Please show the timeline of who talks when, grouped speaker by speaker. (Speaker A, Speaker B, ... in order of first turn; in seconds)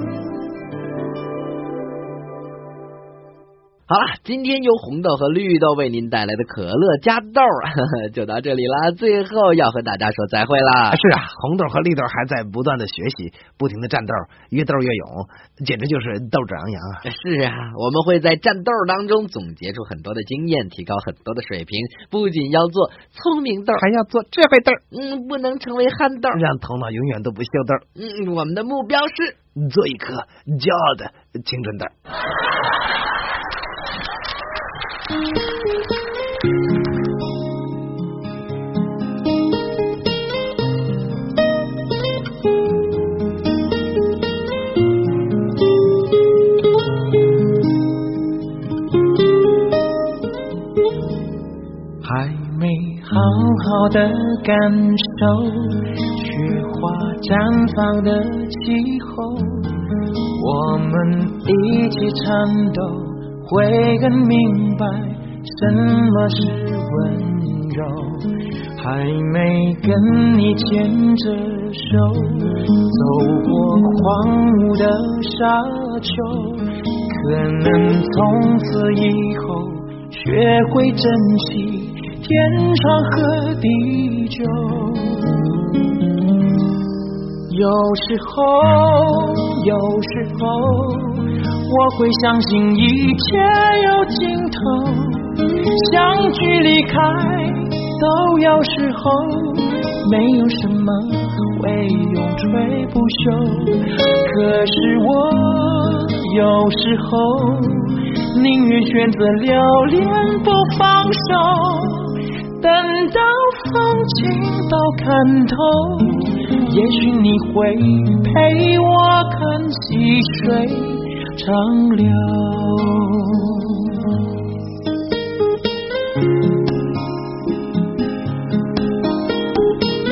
Speaker A: 3.9-11.0, 17.0-23.9, 24.9-26.4, 28.0-29.4
Speaker B: 10.9-17.1, 23.8-24.8, 26.3-27.8, 29.6-31.9
Speaker C: 52.0-85.5, 87.5-124.0